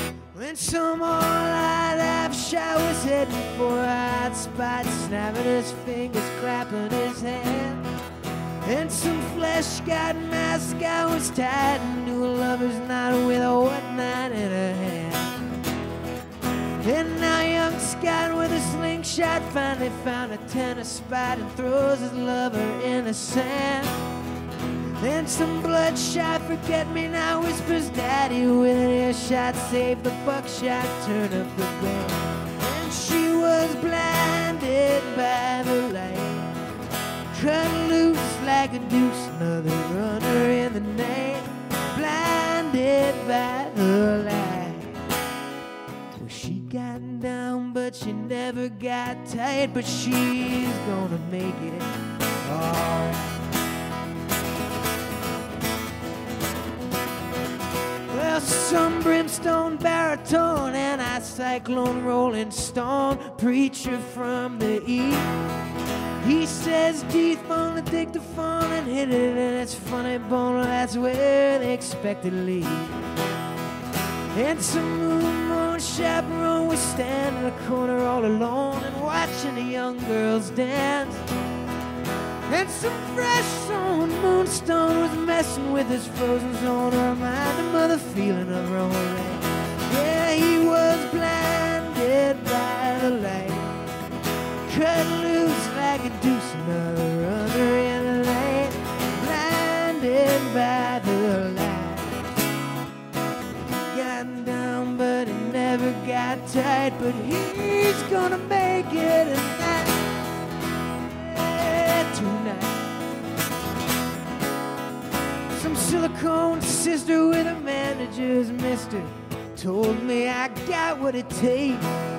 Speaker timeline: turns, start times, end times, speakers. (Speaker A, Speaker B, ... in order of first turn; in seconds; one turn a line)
Speaker A: 0.3-7.8
Speaker A: 8.6-15.4
Speaker A: 16.8-24.0
Speaker A: 25.0-36.5
Speaker A: 37.3-45.0
Speaker A: 46.1-51.9
Speaker A: 52.4-53.4
Speaker A: 58.1-65.3
Speaker A: 66.2-73.1
Speaker A: 74.3-81.3
Speaker A: 82.5-93.8
Speaker A: 94.7-102.1
Speaker A: 103.9-110.0
Speaker A: 111.0-112.9
Speaker A: 115.5-121.9